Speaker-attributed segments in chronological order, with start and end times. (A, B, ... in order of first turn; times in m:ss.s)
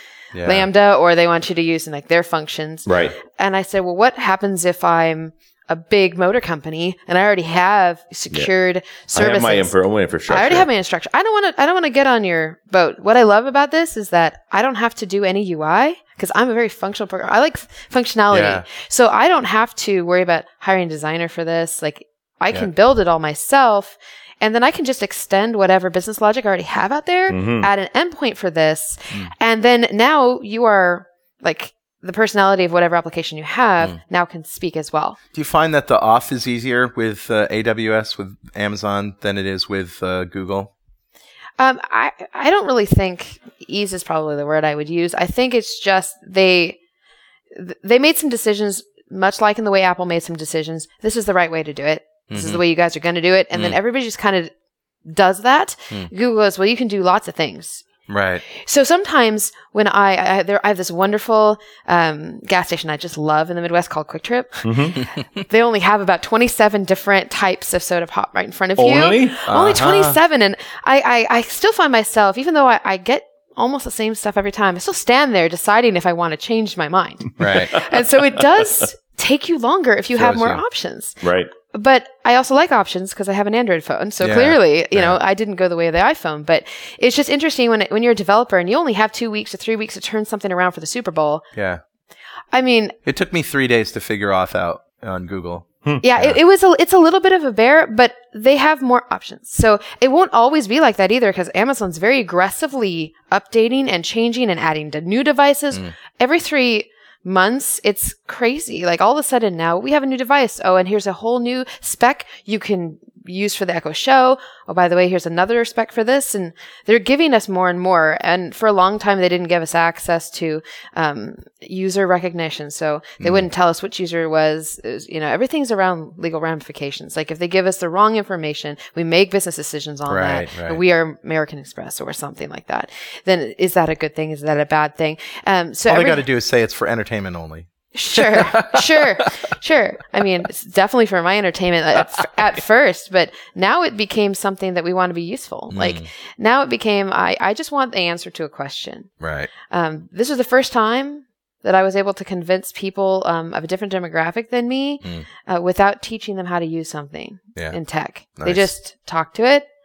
0:00.3-0:00.7 A
0:00.4-0:09.7 B
0:02.9-0:03.1 C
0:09.2-0:10.7 C
0:10.3-0:35.2 B
0:18.3-0:18.6 A
0:27.3-0:27.7 C
0:35.3-0:40.7 A
0:41.6-0:46.8 B
0:47.5-0:54.5 B
0:52.3-0:52.6 A
0:55.1-0:57.8 B
0:58.1-0:58.4 A
0:58.5-1:31.4 B
1:04.6-1:05.0 C
1:08.8-1:09.4 C
1:09.5-1:10.2 A
1:17.4-1:17.7 A
1:20.2-1:20.6 A
1:21.2-1:21.5 C
1:24.2-1:25.2 A
1:31.6-1:31.8 A
1:32.5-1:33.0 B
1:33.1-1:36.4 A
1:36.0-2:16.2 B
2:03.2-2:03.5 A
2:10.1-2:10.8 A
2:15.9-2:19.3 A
2:17.9-2:29.1 B
2:25.7-2:26.1 A
2:29.2-2:29.5 A
2:29.7-2:39.7 B
2:35.0-2:35.3 A
2:38.4-2:38.7 A